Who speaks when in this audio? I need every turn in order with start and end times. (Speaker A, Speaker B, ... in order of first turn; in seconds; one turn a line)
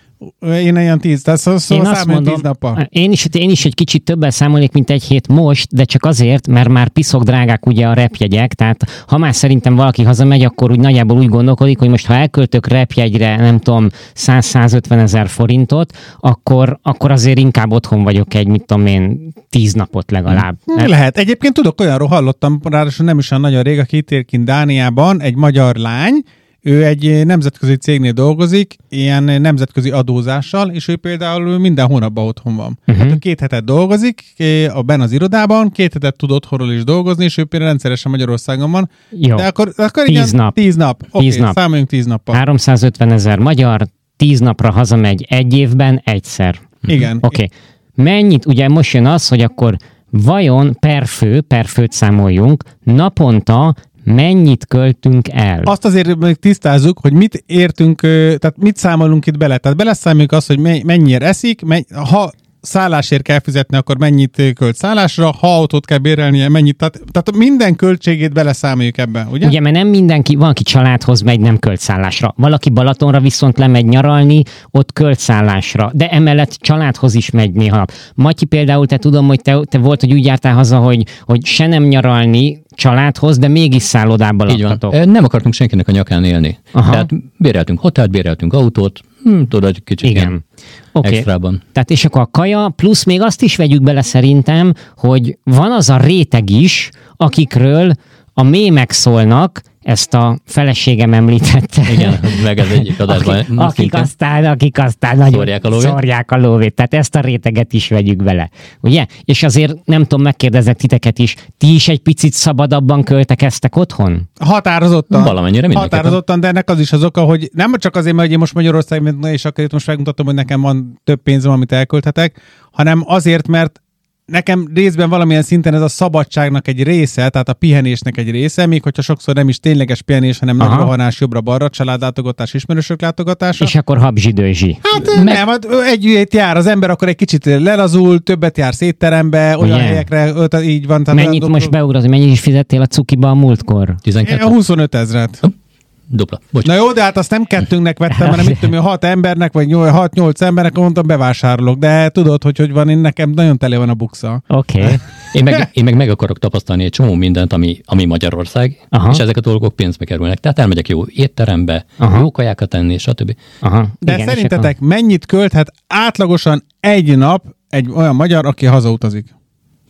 Speaker A: 0.4-2.8
Speaker B: 1.7-20.9
Speaker A: 20.7-42.4
Speaker B: 32.9-33.2
Speaker B: 39.1-39.5
Speaker B: 40.1-40.6
Speaker B: 41.2-41.6
Speaker B: 42.3-46.7
Speaker A: 46.9-47.4
Speaker B: 47.2-55.7
Speaker A: 55.7-69.5
Speaker B: 69.4-84.9
Speaker C: 84.5-90.3
Speaker B: 86.7-87.1
Speaker B: 90.0-90.4
Speaker B: 91.0-114.3
Speaker C: 91.0-91.6
Speaker C: 101.9-104.1
Speaker C: 105.3-106.0
Speaker A: 114.4-123.8
Speaker C: 115.1-116.2
Speaker A: 124.3-133.7
Speaker B: 130.6-130.9
Speaker B: 133.6-134.8
Speaker A: 134.8-141.7
Speaker C: 135.0-135.4
Speaker B: 139.6-140.1
Speaker B: 141.1-144.0
Speaker C: 144.1-144.6
Speaker A: 144.2-145.4
Speaker C: 146.1-146.7
Speaker A: 146.6-154.9
Speaker B: 148.1-148.6
Speaker B: 154.5-155.0
Speaker C: 155.3-163.4
Speaker B: 158.9-159.2
Speaker B: 162.0-162.3
Speaker B: 163.6-164.7
Speaker A: 164.0-169.3